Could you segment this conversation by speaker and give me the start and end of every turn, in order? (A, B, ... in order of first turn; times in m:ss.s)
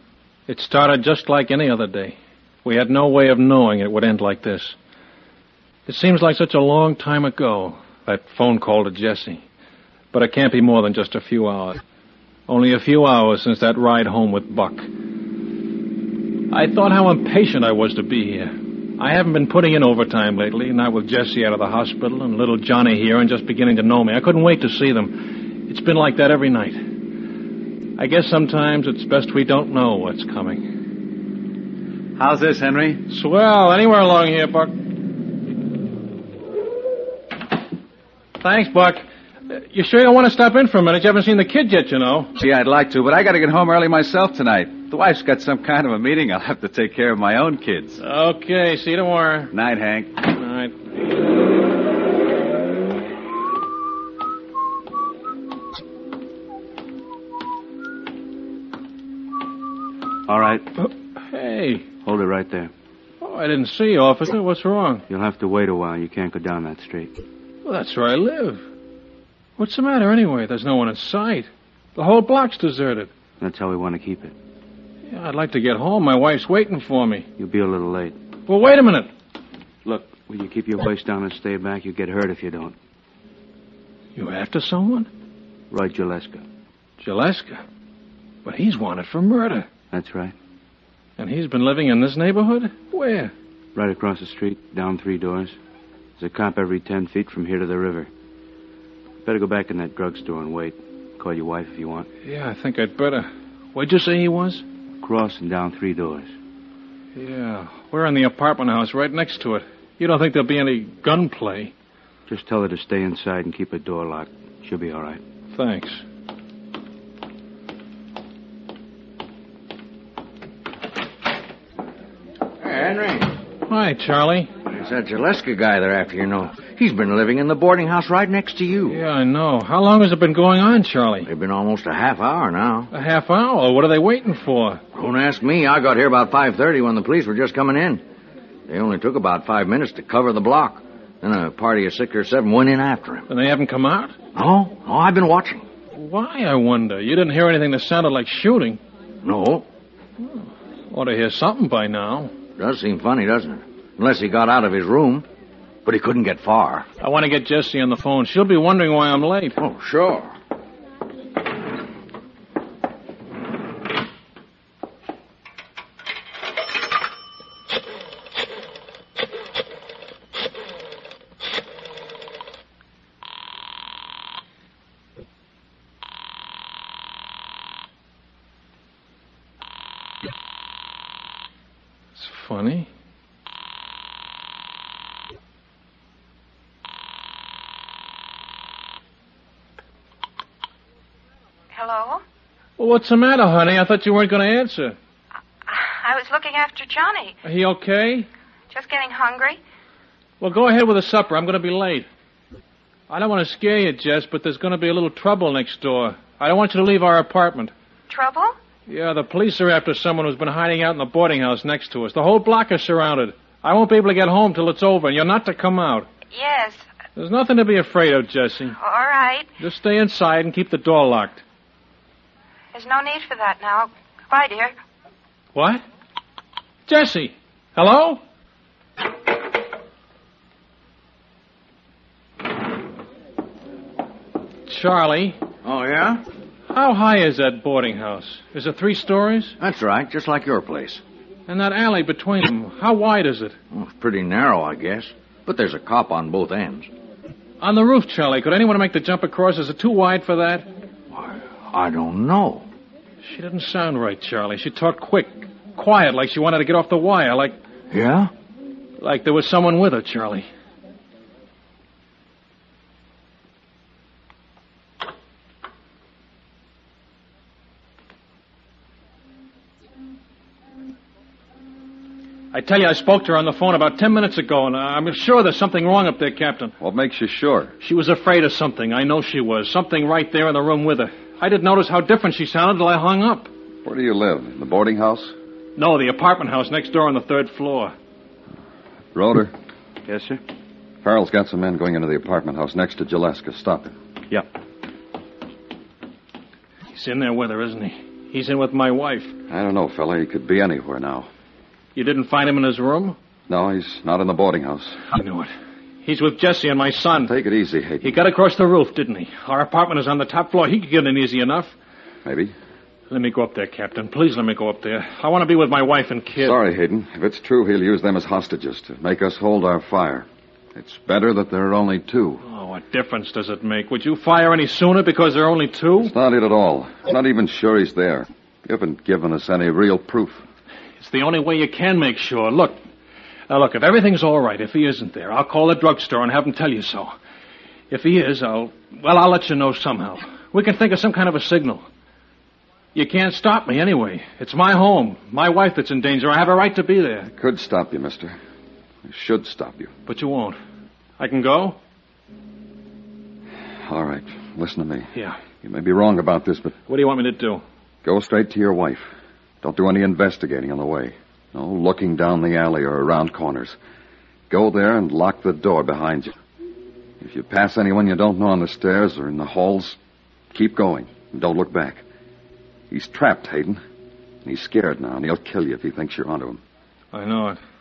0:00.5-0:04.8 A
0:05.9-0:09.4 A
0:10.1-0:11.8 A
0:12.5-0:14.9 A
0:16.5-0:25.2 A
0:25.7-0:26.8 A
0:28.0-0:30.7 A
0:32.2-0:33.0 B
0:33.1-0:34.7 A
0:38.4-0:42.3 A
0:42.4-0:48.0 B
0:48.0-0:49.5 A
0:49.5-0:50.2 B
0:50.3-0:50.8 A
1:00.3-1:00.7 C
1:00.8-1:01.9 A
1:02.0-1:02.7 C
1:03.2-1:05.0 A
1:05.1-1:07.1 C
1:07.6-1:08.6 A
1:09.6-1:13.1 A
1:13.4-1:14.4 C
1:15.1-1:17.3 A
1:17.4-1:18.2 C
1:18.5-1:19.1 A
1:19.8-1:22.8 C
1:24.2-1:25.1 A
1:25.7-1:26.4 C
1:27.0-1:27.6 A
1:28.4-1:29.7 A
1:29.9-1:30.3 C
1:31.2-1:33.3 A
1:33.8-1:35.6 C
1:36.2-1:38.1 C
1:39.2-1:42.1 C
1:42.2-1:44.6 A
1:45.0-1:46.3 C
1:47.2-1:51.7 A
1:52.3-1:55.2 C
1:55.5-1:56.0 A
2:02.6-2:03.4 D
2:03.7-2:04.5 A
2:04.7-2:09.0 D
2:08.9-2:11.3 A
2:11.3-2:12.9 D
2:12.9-2:14.8 A
2:14.9-2:18.0 D
2:18.7-2:23.3 D
2:23.3-2:24.2 A
2:24.4-2:25.7 D
2:25.9-2:28.8 A
2:29.2-2:29.6 D
2:30.9-2:32.3 A
2:32.6-2:35.2 D
2:35.8-2:36.9 D
2:37.0-2:39.6 A
2:39.6-2:40.3 D
3:02.2-3:02.9 A
3:11.7-3:12.2 E
3:12.8-3:15.0 A
3:15.7-3:17.4 E
3:17.4-3:18.3 A
3:18.7-3:19.6 E
3:20.4-3:22.1 A
3:23.1-3:27.7 A
3:28.1-3:28.6 E
3:28.9-3:36.1 A
3:36.3-3:36.8 E
3:37.2-3:38.8 A
3:38.8-3:39.5 E
3:39.6-3:41.4 A
3:42.7-3:44.7 E
3:45.6-3:45.8 A
3:46.9-3:48.2 A
3:54.7-3:55.4 A
3:55.6-3:56.2 D
3:56.7-3:59.6 A
3:59.6-4:01.0 D
4:01.5-4:03.6 A
4:03.7-4:06.9 D
4:07.6-4:10.7 A
4:11.1-4:12.7 D
4:13.2-4:17.6 A
4:17.9-4:18.3 D
4:19.0-4:20.5 A
4:32.5-4:36.8 A
4:36.8-4:37.8 F
4:37.8-4:43.5 A
4:43.8-4:45.4 F
4:45.8-4:47.9 A
4:49.1-4:49.5 F
4:50.1-4:50.4 C
4:51.0-4:54.0 F
4:56.9-4:59.4 A
4:59.5-5:01.3 F
5:02.0-5:03.2 A
5:03.5-5:05.0 F
5:05.1-5:05.5 A
5:06.0-5:07.3 A
5:07.2-5:08.2 F
5:08.0-5:11.8 A
5:12.2-5:12.5 F
5:13.1-5:16.6 A
5:16.4-5:22.4 F
5:22.4-5:26.1 A
5:26.0-5:30.4 F
5:31.0-5:32.8 A
5:33.5-5:37.1 A
5:37.9-5:41.9 A
5:43.0-5:47.3 A
5:47.3-5:48.4 F
5:49.0-5:49.9 F
5:50.1-5:50.6 A
5:51.2-5:51.8 A
5:53.8-5:55.1 F
5:55.6-5:56.8 F
5:56.9-5:57.6 A
5:58.0-5:59.1 F
5:59.6-6:03.8 F
6:04.5-6:06.4 F
6:07.2-6:10.0 F
6:10.5-6:12.0 F
6:12.9-6:13.8 F
6:14.4-6:16.6 F
6:17.1-6:17.6 A